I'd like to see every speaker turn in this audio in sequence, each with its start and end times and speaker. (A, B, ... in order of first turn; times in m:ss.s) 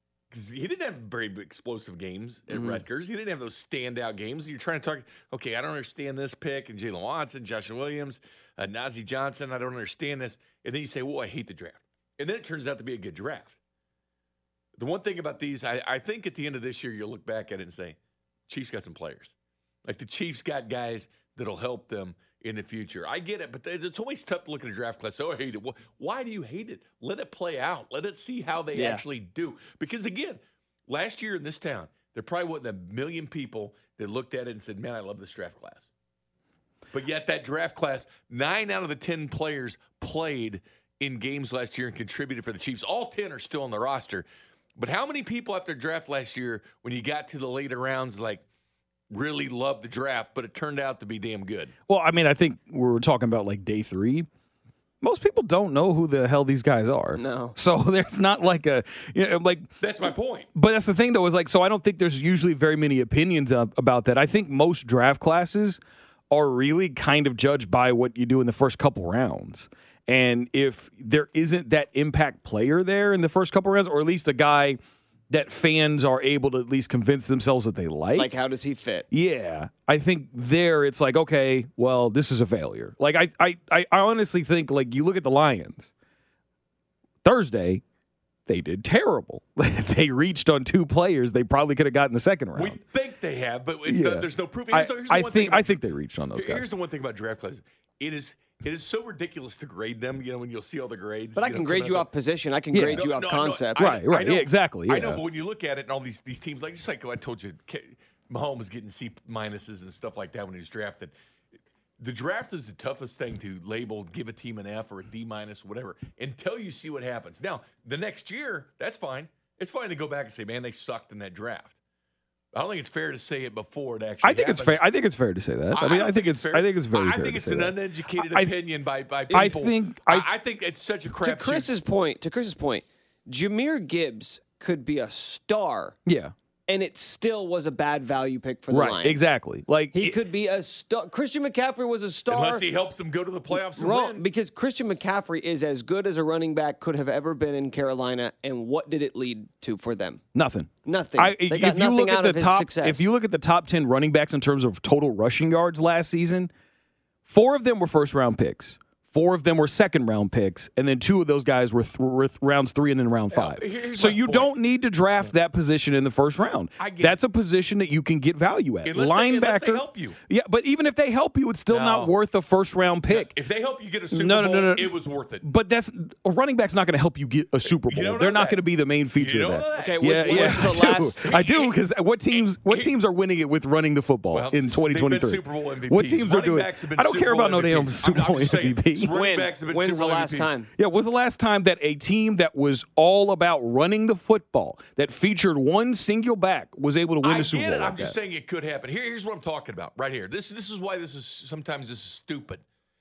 0:00.3-0:13.6 A
0:02.5-0:02.8 B
0:14.8-0:19.3 A
0:19.8-0:35.9 A
0:28.8-0:29.0 B
0:36.9-0:48.4 A
0:49.1-0:51.7 A
0:51.9-0:54.3 C
0:55.0-0:59.7 C
0:57.2-0:57.6 B
0:59.8-1:00.5 A
1:00.6-1:05.8 C
1:06.3-1:14.8 C
1:15.3-1:18.3 C
1:18.2-1:19.1 B
1:19.1-1:25.9 C
1:27.2-1:27.8 C
1:28.5-1:32.8 C
1:32.6-1:35.8 A
1:33.9-1:36.6 C
1:36.3-1:42.1 A
1:41.4-1:43.9 B
1:42.7-1:43.1 C
1:42.9-1:51.2 A
1:43.8-1:45.2 C
1:52.0-2:01.8 A
2:02.5-2:04.8 A
2:04.2-2:08.5 C
2:05.7-2:11.7 A
2:09.3-2:10.3 C
2:11.2-2:16.0 B
2:16.1-2:16.3 C
2:16.7-2:19.3 B
2:18.7-2:20.2 C
2:19.9-2:22.6 B
2:22.3-2:24.2 A
2:23.5-2:30.2 B
2:30.4-2:36.5 C
2:30.8-2:33.1 B
2:37.3-2:53.3 C
2:43.3-2:44.5 A
2:46.8-2:47.2 A
2:48.8-2:50.2 A
2:51.7-2:52.1 A
2:53.1-2:55.4 A
2:54.1-3:09.1 C
2:57.8-2:58.6 A
2:59.2-3:01.8 A
2:59.8-3:01.3 B
3:02.3-3:02.9 A
3:04.3-3:10.6 A
3:09.1-3:10.7 B
3:10.8-3:18.2 C
3:17.2-3:22.6 A